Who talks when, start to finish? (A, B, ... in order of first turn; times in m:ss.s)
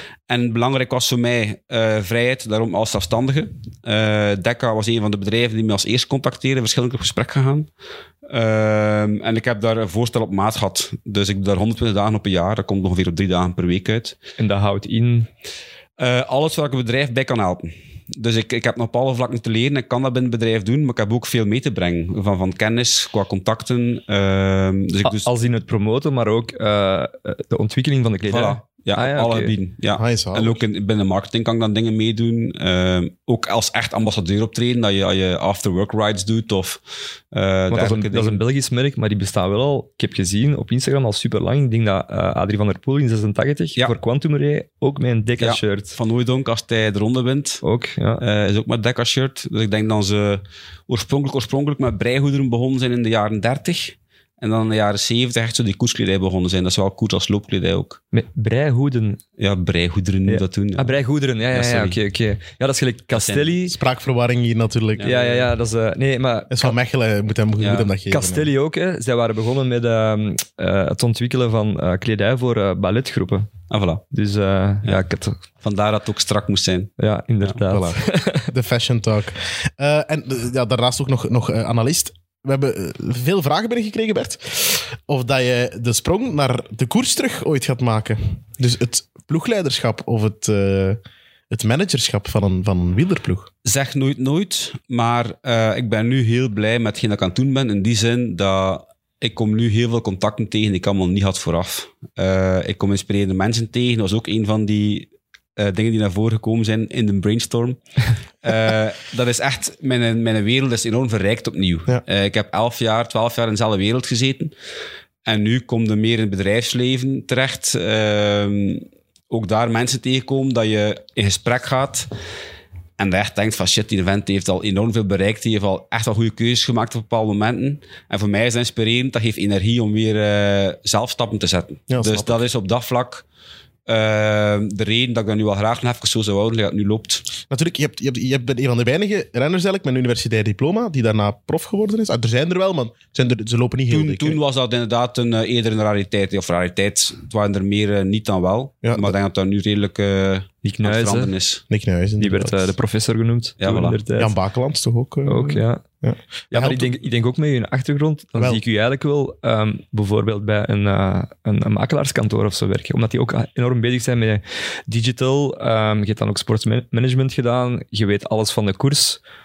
0:00.3-0:07.7 A
0:08.3-0:14.2 A
0:14.4-0:15.3 B
0:16.0-0:25.3 A
0:25.0-0:29.5 B
0:28.2-0:36.8 A
0:30.0-0:30.6 C
0:37.3-0:38.4 A
0:37.7-0:46.0 B
0:45.4-0:47.6 A
0:47.6-0:48.2 B
0:48.2-0:58.0 A
0:58.1-0:59.2 B
0:59.4-1:00.9 A
1:00.2-1:03.8 B
1:01.5-1:02.0 A
1:03.1-1:03.5 A
1:03.7-1:05.3 C
1:05.0-1:05.3 A
1:05.0-1:06.7 B
1:06.5-1:08.5 C
1:07.6-1:07.9 A
1:08.1-1:13.5 B
1:13.7-1:14.0 A
1:14.1-1:15.4 B
1:15.6-1:16.9 A
1:17.0-1:18.5 B
1:17.6-1:31.0 C
1:31.5-1:33.5 C
1:33.6-1:47.8 A
1:48.4-1:54.5 A
1:55.2-2:02.1 A
2:03.0-2:13.2 A
2:11.9-2:12.4 C
2:13.9-2:17.2 A
2:17.5-2:24.4 C
2:23.9-2:31.6 A
2:28.8-2:29.1 C
2:30.6-2:31.3 B
2:31.7-2:32.7 C
2:32.2-2:34.3 B
2:33.6-2:34.0 A
2:34.2-2:36.9 C
2:35.3-2:35.8 B
2:36.5-2:49.2 B
2:38.3-2:38.6 C